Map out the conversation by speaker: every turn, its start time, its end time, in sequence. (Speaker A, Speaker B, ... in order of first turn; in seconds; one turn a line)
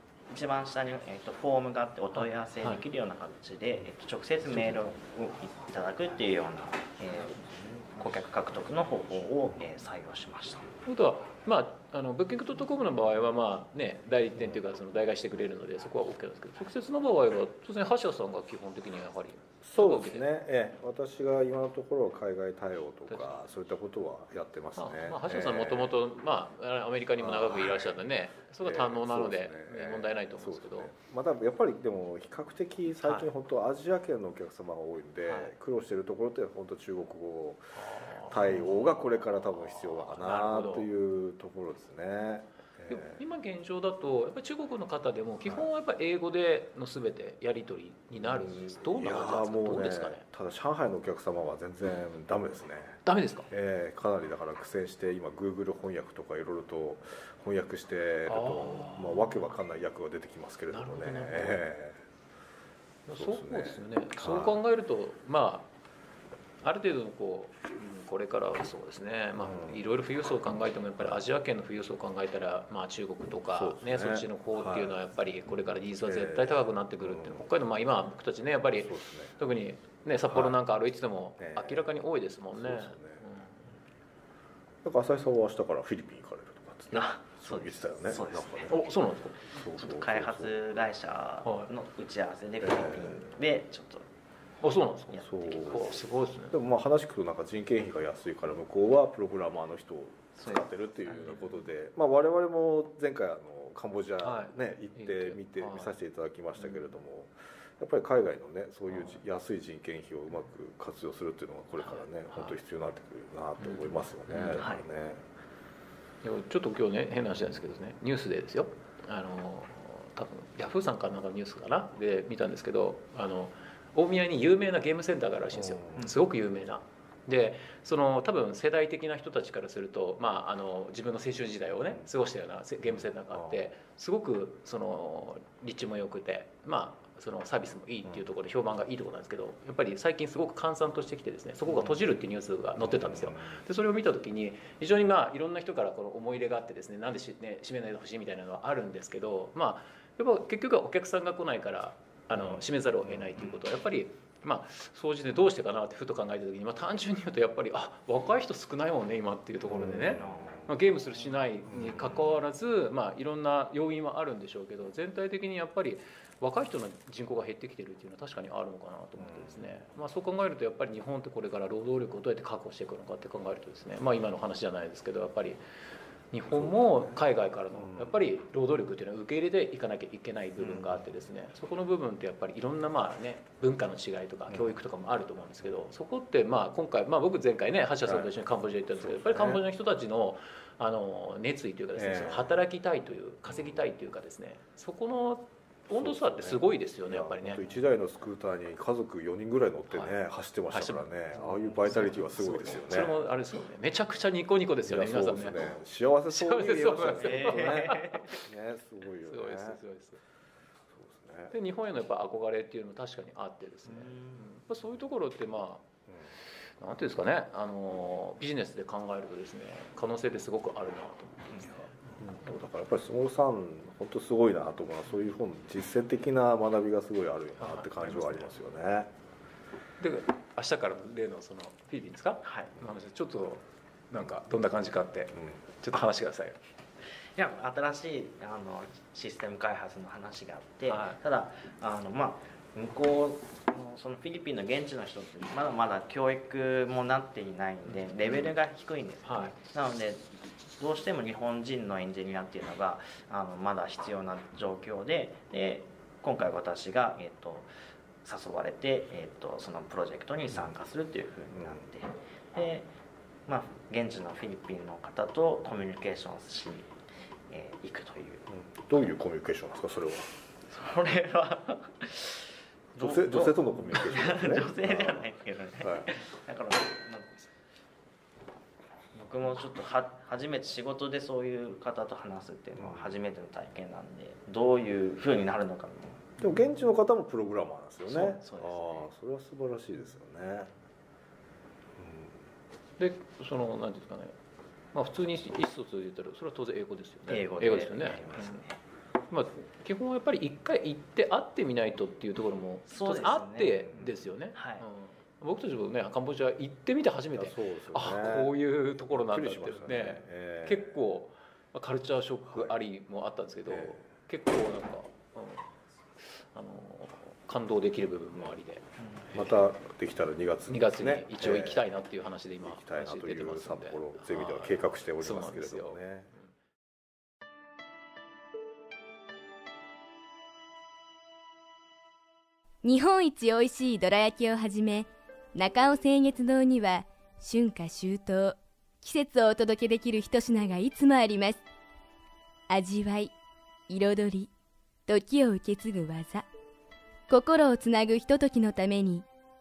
Speaker A: 0.3-10.8
Speaker B: 2.1-2.8
Speaker B: 10.8-20.3
Speaker C: 19.6-26.0
Speaker B: 23.1-23.4
Speaker B: 24.8-30.9
Speaker C: 27.2-28.0
Speaker C: 28.6-43.2
Speaker B: 33.0-33.3
Speaker B: 37.8-40.9
Speaker B: 42.9-50.2
Speaker C: 48.2-62.0
Speaker B: 53.1-53.5
Speaker B: 58.3-59.5
Speaker B: 60.7-61.7
Speaker B: 63.1-65.7
Speaker C: 63.1-64.6
Speaker B: 66.6-83.7
Speaker C: 69.4-69.8
Speaker C: 73.5-75.0
Speaker C: 76.0-77.5
Speaker C: 78.8-79.4
Speaker C: 80.3-80.6
Speaker C: 81.4-83.2
Speaker C: 84.8-90.5
Speaker A: 86.9-88.8
Speaker B: 88.7-89.5
Speaker A: 89.8-94.1
Speaker B: 91.4-91.7
Speaker C: 92.6-93.3
Speaker B: 94.6-96.6
Speaker C: 95.2-96.0
Speaker A: 95.6-95.8
Speaker C: 96.5-115.2
Speaker A: 100.4-101.4
Speaker B: 104.2-106.0
Speaker B: 108.9-109.2
Speaker B: 111.8-112.6
Speaker B: 113.6-114.7
Speaker A: 114.6-114.8
Speaker B: 116.2-175.6
Speaker C: 125.5-126.1
Speaker C: 132.8-133.6
Speaker C: 141.7-142.0
Speaker C: 142.8-143.6
Speaker C: 152.3-153.6
Speaker C: 159.7-160.7
Speaker C: 161.7-162.4
Speaker C: 169.2-169.8
Speaker B: 176.3-197.6
Speaker C: 176.5-177.2
Speaker C: 177.7-178.2
Speaker C: 180.6-181.1
Speaker C: 184.5-184.8
Speaker C: 188.1-188.3
Speaker C: 189.0-189.6
Speaker C: 191.9-192.6
Speaker C: 193.5-193.8
Speaker C: 195.9-203.2
Speaker B: 200.7-208.4
Speaker C: 204.9-209.8
Speaker A: 207.2-208.3
Speaker B: 209.2-210.2
Speaker C: 210.9-211.5
Speaker B: 211.5-215.9
Speaker A: 214.0-214.4
Speaker B: 216.8-221.9
Speaker C: 222.2-229.1
Speaker B: 227.6-228.5
Speaker B: 230.0-236.6
Speaker A: 232.4-232.7
Speaker A: 237.4-257.7
Speaker B: 240.9-241.2
Speaker B: 247.9-248.5
Speaker B: 249.2-249.6
Speaker A: 258.2-262.9
Speaker A: 263.5-266.9
Speaker A: 267.5-268.5
Speaker C: 268.5-270.3
Speaker A: 270.7-277.4
Speaker C: 272.9-275.3
Speaker C: 275.8-276.1
Speaker A: 279.1-286.4
Speaker C: 282.8-283.1
Speaker C: 286.4-290.7
Speaker A: 288.1-289.1
Speaker C: 292.0-292.4
Speaker B: 293.0-294.4
Speaker B: 294.9-298.6
Speaker A: 297.3-298.8
Speaker B: 299.3-315.7
Speaker A: 302.9-303.9
Speaker A: 304.5-304.9
Speaker C: 307.3-308.6
Speaker C: 309.1-311.0
Speaker C: 312.5-312.8
Speaker C: 313.7-314.0
Speaker B: 316.2-318.8
Speaker A: 319.0-319.2
Speaker C: 319.3-321.8
Speaker B: 320.7-326.0
Speaker C: 322.6-326.3
Speaker D: 332.8-341.6
Speaker D: 342.7-343.3
Speaker D: 343.9-344.5
Speaker D: 345.1-346.5
Speaker D: 347.3-349.3